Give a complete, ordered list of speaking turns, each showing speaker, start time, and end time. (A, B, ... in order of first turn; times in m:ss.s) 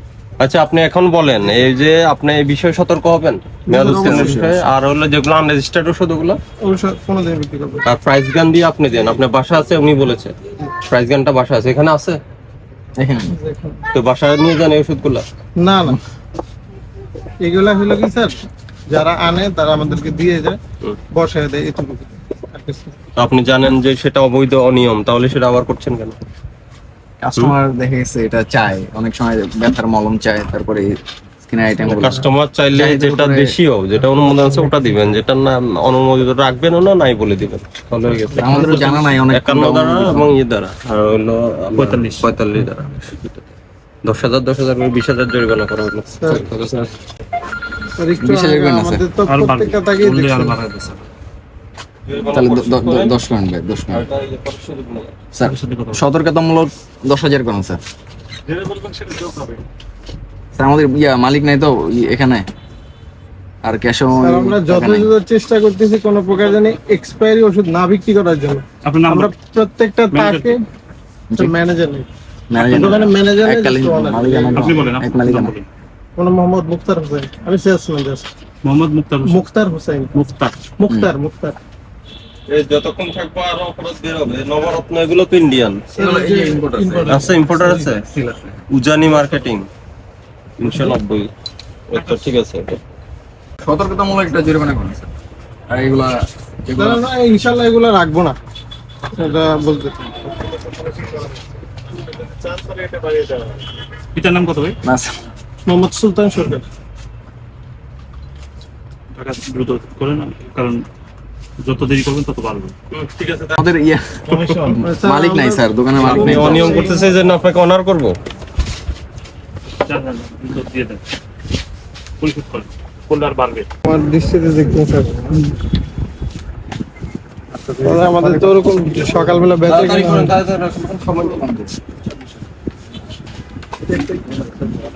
0:00.4-0:06.4 A
0:03.7-0:04.4 B
0:03.9-0:04.7 C
0:06.6-0:07.8 B
0:07.8-0:12.2 A
0:13.0-0:13.4 C
0:13.3-0:13.8 B
0:13.9-0:15.2 A
0:15.6-0:16.0 B
0:17.4-0:18.4 B
0:18.9-0:20.6 B
0:21.1-0:23.0 B
0:23.2-0:26.2 A
0:27.2-0:33.6 C
0:31.9-0:43.4 A
0:38.4-0:40.3 C
0:41.7-0:42.3 D
0:44.0-0:46.9 A
0:48.0-0:50.6 B
0:48.2-0:49.0 C
0:49.2-0:51.1 D
0:52.0-0:53.2 A
0:52.3-0:54.0 C
0:53.9-0:55.2 A
0:55.3-0:57.8 C
0:55.4-0:56.0 D
0:58.5-0:59.6 A
1:00.5-1:02.5 C
1:03.6-1:05.1 C
1:04.2-1:10.6 B
1:08.8-1:09.3 D
1:10.1-1:10.6 D
1:11.4-1:15.0 B
1:12.5-1:15.6 C
1:14.5-1:15.6 D
1:16.2-1:18.3 B
1:18.6-1:19.4 D
1:19.2-1:20.1 B
1:20.1-1:20.6 D
1:20.8-1:21.6 B
1:22.5-1:25.9 A
1:25.9-1:27.9 B
1:26.0-1:27.4 C
1:27.1-1:28.1 A
1:28.1-1:28.6 C
1:28.7-1:29.7 A
1:30.6-1:31.3 A
1:31.9-1:32.8 A
1:33.6-1:35.1 C
1:35.7-1:37.0 C
1:36.8-1:38.4 B
1:39.1-1:41.4 B
1:42.1-1:43.6 A
1:44.1-1:44.8 D
1:44.8-1:45.2 C
1:45.6-1:46.6 B
1:49.1-1:50.8 D
1:51.6-1:52.7 D
1:52.9-1:53.7 A
1:53.6-1:56.9 C
1:54.3-1:54.6 A
1:54.6-1:57.1 B
1:56.0-1:58.2 A
1:59.8-2:01.0 D
2:02.2-2:03.7 D
2:03.8-2:05.4 B
2:07.8-2:10.4 B
2:08.1-2:08.5 D
2:09.6-2:11.6 A
2:11.3-2:11.7 C
2:13.9-2:14.5 B